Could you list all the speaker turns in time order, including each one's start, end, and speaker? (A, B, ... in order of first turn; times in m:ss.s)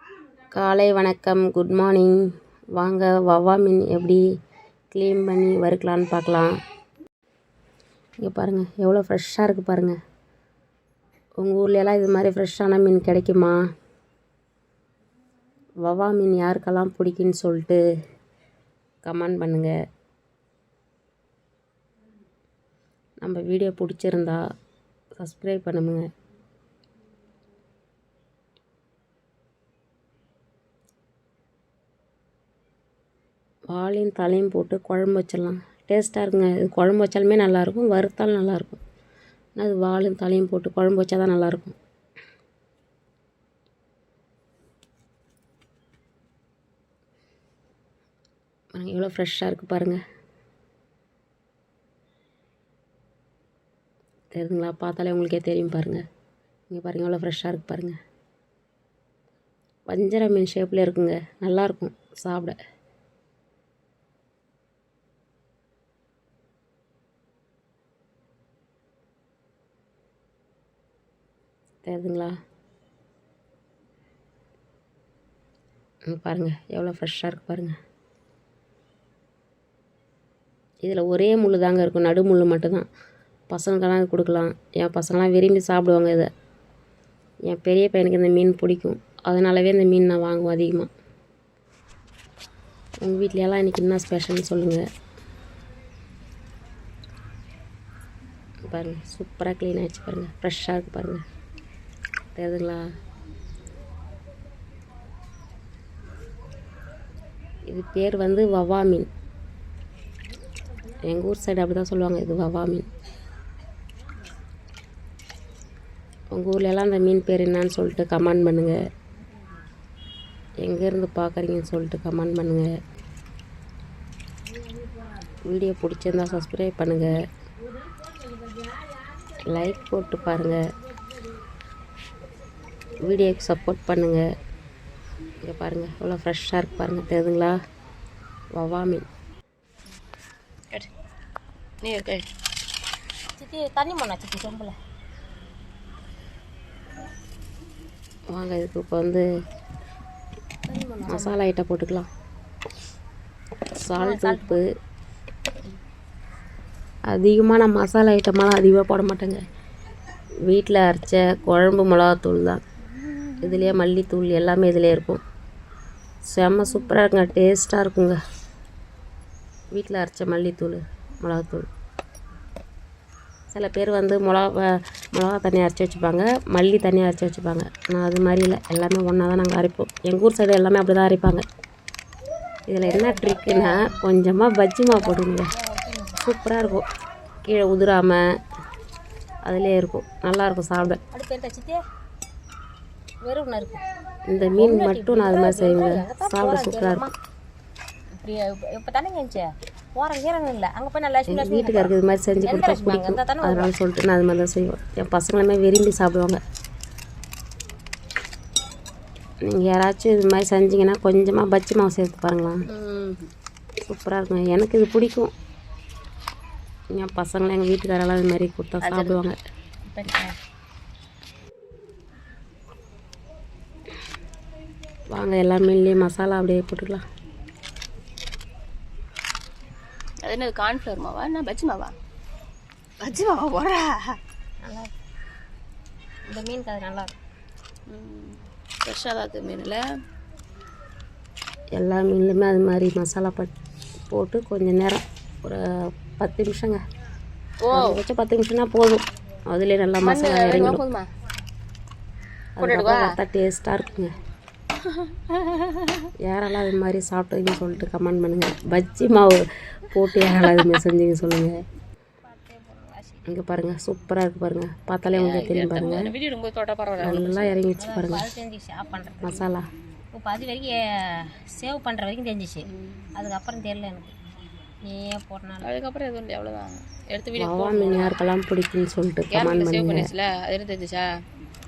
0:00.5-0:02.2 A
0:02.8-0:04.2 A
0:04.9-0:06.5 A
0:08.2-0:10.0 A
0:11.4-0:13.6 A
0:15.8-0:17.8 A
0:19.0-0:19.7 A
0:23.2-0:24.4 A
0:25.2-0:26.1 A
0:33.7-0:38.8 A
0:39.6-0:41.8 A
0:48.7-0:50.0 A
0:54.3-0:56.0 A
0:56.7-0:58.0 A
0:59.9-1:02.6 A
1:11.8-1:12.4 A
1:16.1-1:17.8 A
1:20.8-1:22.9 A
1:23.5-1:26.3 A
1:27.5-1:30.9 A
1:33.0-1:34.8 A
1:38.7-1:41.2 A
1:42.4-1:42.8 A
1:47.7-1:49.1 A
1:51.1-1:52.8 A
1:56.3-1:58.8 A
2:00.6-2:02.7 A
2:05.5-2:07.2 A
2:09.5-2:10.6 A
2:13.0-2:14.2 A
2:15.4-2:17.6 A
2:18.6-2:19.1 A
2:21.8-2:22.2 B
2:23.4-2:24.7 C
2:28.3-2:29.2 A
2:30.7-2:31.4 B
2:31.0-2:32.1 A
2:33.8-2:34.7 A
2:34.0-2:34.6 C
2:37.1-2:39.4 A
2:40.4-2:42.6 A
2:43.4-2:45.2 A
2:46.3-2:48.2 A
2:49.7-2:51.7 A
2:53.5-3:01.4 A
3:02.7-3:05.5 A
3:02.8-3:03.9 C
3:04.9-3:06.2 C
3:06.2-3:06.8 A
3:07.4-3:08.2 A
3:09.4-3:11.0 A
3:11.1-3:11.8 C
3:13.2-3:13.8 C
3:14.3-3:17.1 A
3:14.5-3:17.1 C
3:18.2-3:21.9 C
3:21.3-3:26.4 A
3:22.4-3:23.7 C
3:29.4-3:32.6 A
3:32.7-3:33.3 B
3:33.8-3:35.3 A
3:36.9-3:39.4 A
3:38.8-3:39.2 B
3:39.9-3:40.3 C
3:45.1-3:47.0 A
3:50.2-3:51.9 B
3:53.0-3:54.2 B
3:54.6-3:54.9 C
3:56.3-3:57.1 C
3:57.9-3:59.8 B
4:01.8-4:03.5 A
4:04.1-4:06.8 A
4:07.6-4:08.0 B
4:07.7-4:10.8 A
4:10.0-4:11.1 B
4:12.6-4:14.1 A
4:12.6-4:13.1 B
4:14.9-4:16.1 B
4:16.2-4:21.6 A
4:20.3-4:20.6 B
4:22.3-4:23.3 C
4:23.3-4:26.1 A
4:25.1-4:27.6 B
4:27.0-4:28.3 A
4:27.8-4:29.5 C
4:29.2-4:29.7 A
4:30.1-4:34.1 C
4:32.6-4:33.1 B
4:34.8-4:35.7 C
4:35.6-4:38.2 B
4:37.4-4:40.1 A
4:39.3-4:41.1 B